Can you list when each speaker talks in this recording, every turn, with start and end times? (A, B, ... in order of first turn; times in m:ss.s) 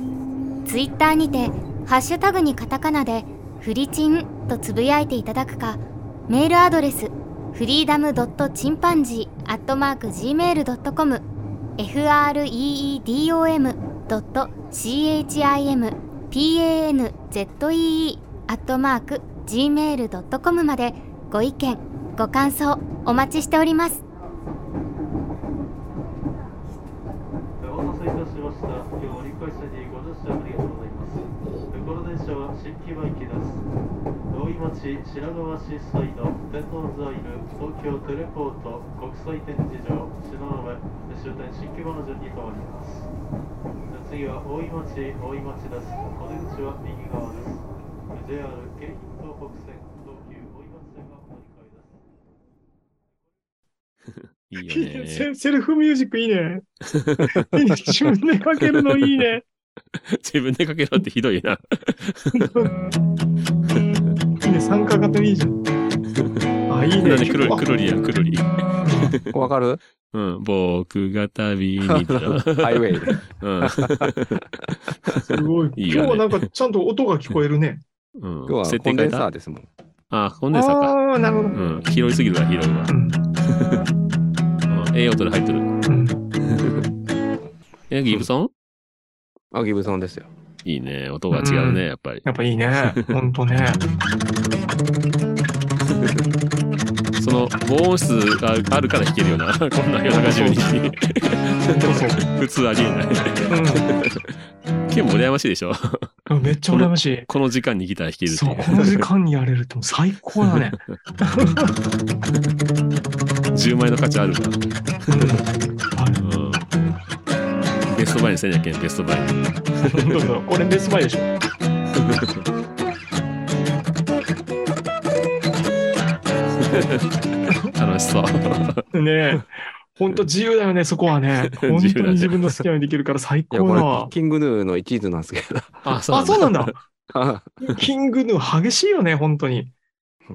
0:00.7-0:11.3 A
0:11.8-0:24.0 A
0:27.6-0:33.6 B
0:34.3-0:43.1 B
0:43.9-0:52.0 B
0:54.2-0:55.3 C
0:54.6-0:56.6 D
0:56.9-0:57.4 C
0:57.4-0:59.4 D
0:58.6-0:59.2 C
1:00.1-1:02.7 C
1:02.3-1:02.7 D
1:04.4-1:05.6 D
1:06.7-1:07.6 D
1:07.0-1:08.5 C
1:08.8-1:09.2 D
1:09.3-1:09.8 E
1:10.1-1:14.4 C
1:11.8-1:15.2 E
1:15.3-1:17.8 D
1:15.8-1:16.5 C
1:18.2-1:19.3 C
1:18.5-1:19.7 E
1:20.1-1:21.0 C
1:20.5-1:21.6 D
1:21.5-1:23.8 C
1:22.9-1:23.2 D
1:24.7-1:25.7 C
1:25.9-1:26.2 D
1:26.5-1:26.8 C
1:27.9-1:28.5 C
1:29.5-1:30.3 E
1:30.6-1:32.3 C
1:31.3-1:33.8 D
1:32.8-1:33.1 C
1:37.2-1:44.4 C
1:40.1-1:40.7 D
1:41.8-1:42.2 D
1:43.5-1:43.9 D
1:44.9-1:46.2 C
1:46.3-1:47.3 D
1:46.7-1:49.1 C
1:48.3-1:51.7 D
1:50.4-1:51.0 C
1:53.5-1:54.6 C
1:55.1-1:56.2 D
1:56.2-1:56.7 C
1:57.9-2:00.2 C
1:59.8-2:01.3 D
2:02.0-2:02.5 C
2:06.6-2:07.1 C
2:07.7-2:08.8 C
2:08.9-2:14.1 D
2:11.5-2:12.6 C
2:13.5-2:15.9 E
2:15.8-2:16.7 C
2:16.1-2:16.8 D
2:17.1-2:17.6 E
2:17.6-2:19.7 D